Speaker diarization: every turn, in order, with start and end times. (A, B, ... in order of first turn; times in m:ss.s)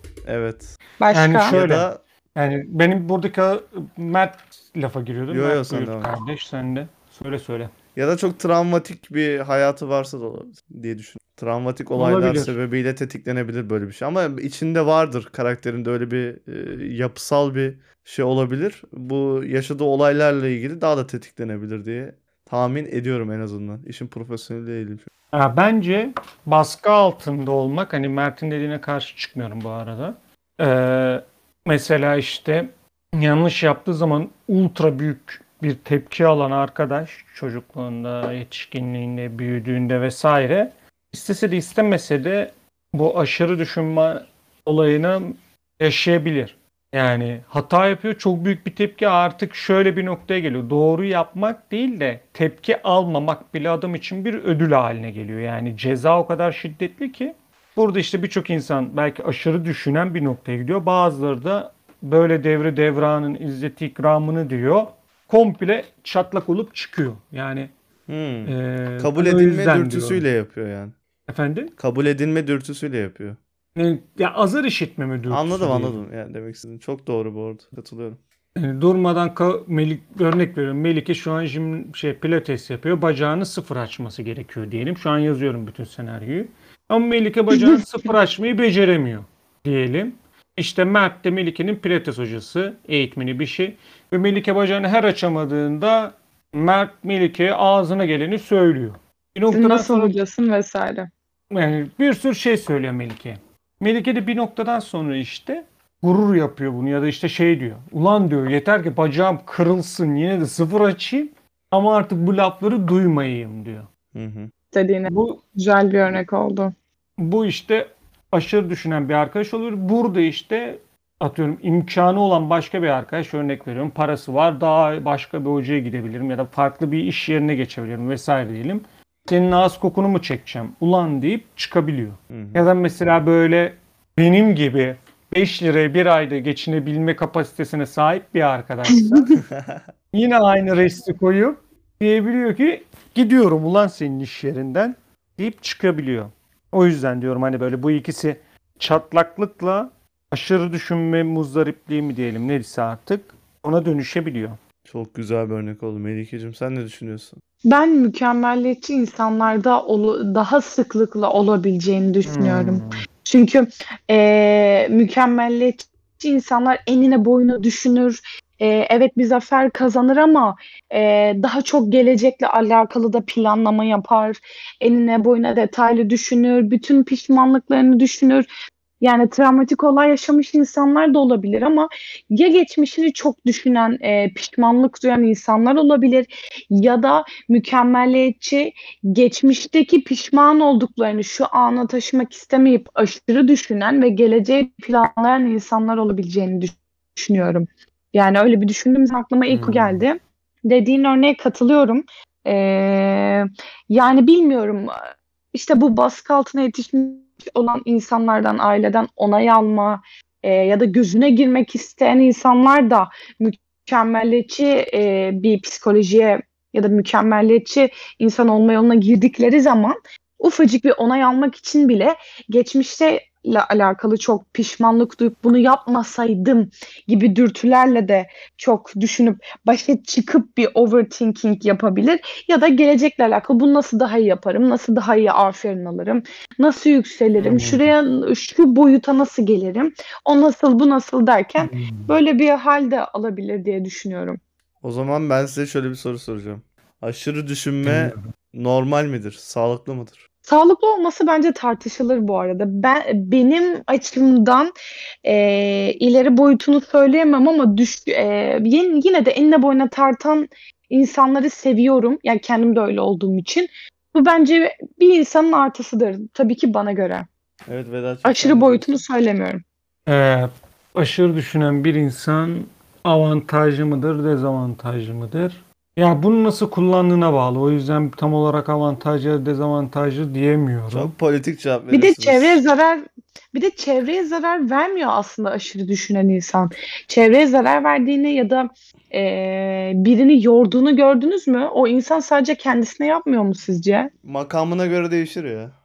0:00.2-0:00.8 A
0:01.0-0:01.5 B
0:01.1-0:07.7 C
0:01.5-0:02.0 A
0:05.3-0:06.1 A
0:07.9-0:25.1 A
0:11.9-0:12.5 C
0:25.3-1:07.7 C
1:08.1-1:10.9 A
1:08.4-1:10.2 C
1:11.3-1:11.7 C
1:11.8-1:13.4 A
1:13.8-1:16.0 C
1:15.3-1:18.2 A
1:18.6-1:40.1 C
1:27.5-1:27.8 B
1:39.5-1:41.1 B
1:41.5-1:53.9 C
1:54.1-1:54.5 A
1:54.7-1:56.7 B
1:55.0-1:55.4 C
1:57.2-2:19.4 C
2:12.3-2:12.6 A
2:19.5-2:19.8 A
2:20.1-2:34.6 C
2:34.8-2:37.4 A
2:37.6-2:58.5 B
2:42.2-2:43.0 C
2:59.0-4:04.4 B
3:19.5-3:20.0 C
3:57.4-3:57.9 C
4:01.6-4:02.2 C
4:04.8-4:10.2 A
4:07.8-4:08.3 C
4:10.4-4:14.7 B
4:15.2-4:27.3 B
4:27.7-4:28.9 A
4:28.2-4:29.6 B
4:30.1-4:41.1 C
4:40.9-4:42.6 A
4:41.9-4:54.1 B
4:54.2-4:55.7 A